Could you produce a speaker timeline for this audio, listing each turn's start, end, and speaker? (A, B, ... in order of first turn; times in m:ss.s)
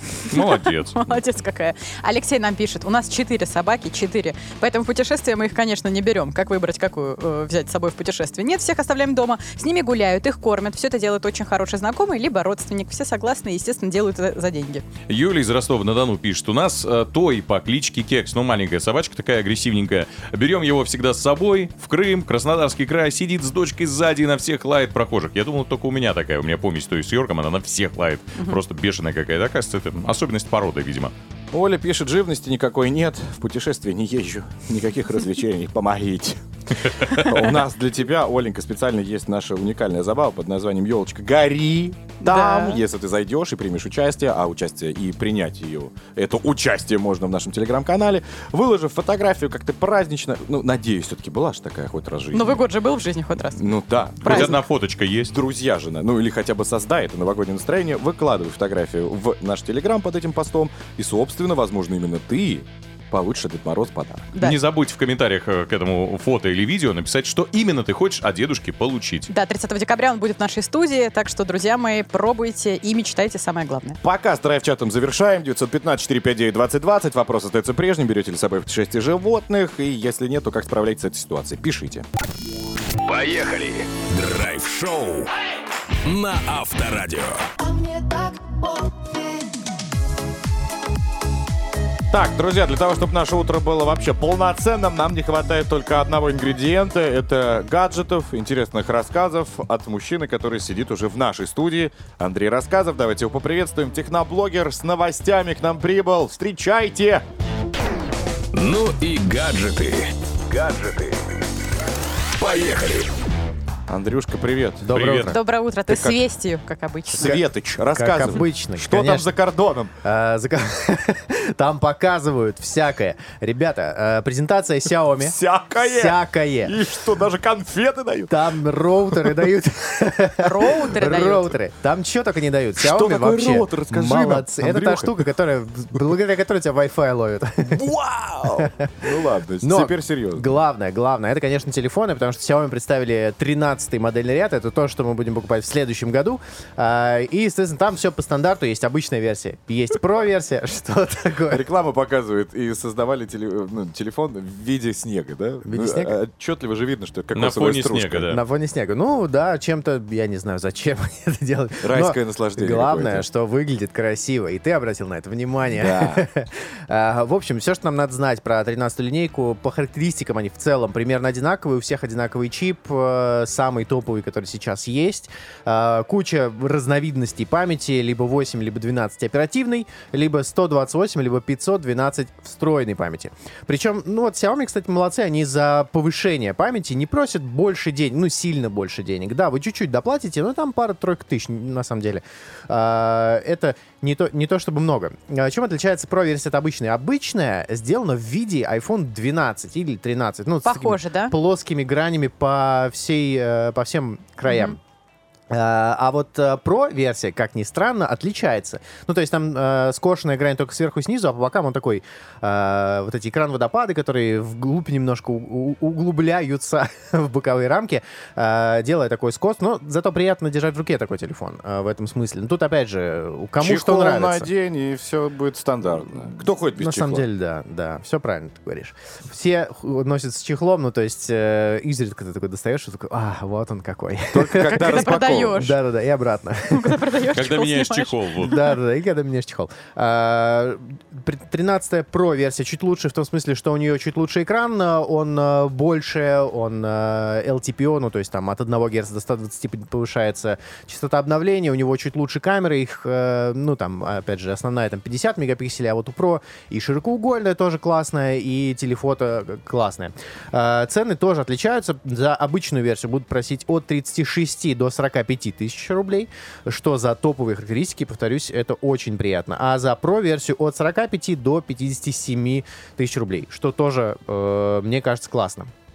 0:00.3-0:01.2 A
0:00.3-0:14.8 B
0:15.1-0:31.1 A
0:31.5-0:36.4 C
0:36.8-0:37.2 A
0:37.1-0:52.6 C
0:42.2-0:42.8 B
0:52.3-0:53.7 B
0:53.6-0:54.6 C
0:54.2-0:55.3 A
0:54.2-0:54.6 B
0:55.3-1:04.3 C
1:04.4-1:09.3 A
1:09.3-1:14.0 B
1:14.0-1:22.1 C
1:23.0-1:25.3 D
1:26.0-1:27.5 D
1:32.1-1:47.2 C
1:48.5-1:51.2 D
1:52.4-1:53.1 D
1:53.9-1:55.3 C
1:54.9-1:55.3 A
1:55.0-1:55.3 E
1:55.3-1:57.4 B
1:55.9-1:56.2 C
1:57.1-1:59.9 C
1:57.2-1:59.3 E
2:00.0-2:06.8 E
2:05.2-2:08.5 C
2:08.3-2:17.8 E
2:10.4-2:11.6 B
2:12.8-2:15.2 C
2:17.7-2:20.5 C
2:18.5-2:18.9 E
2:19.6-2:31.7 E
2:31.5-2:38.3 C
2:35.6-2:36.2 E
2:37.3-2:38.4 A
2:38.3-3:24.8 E
2:41.8-2:43.3 C
2:45.7-2:46.2 C
3:20.6-3:21.3 B
3:24.5-3:24.8 B
3:25.5-3:44.5 E
3:43.6-3:47.2 C
3:46.8-3:57.0 E
3:54.3-3:55.7 C
3:54.6-3:55.8 B
3:56.7-3:58.7 B
3:57.3-3:58.6 A
3:58.4-4:35.7 E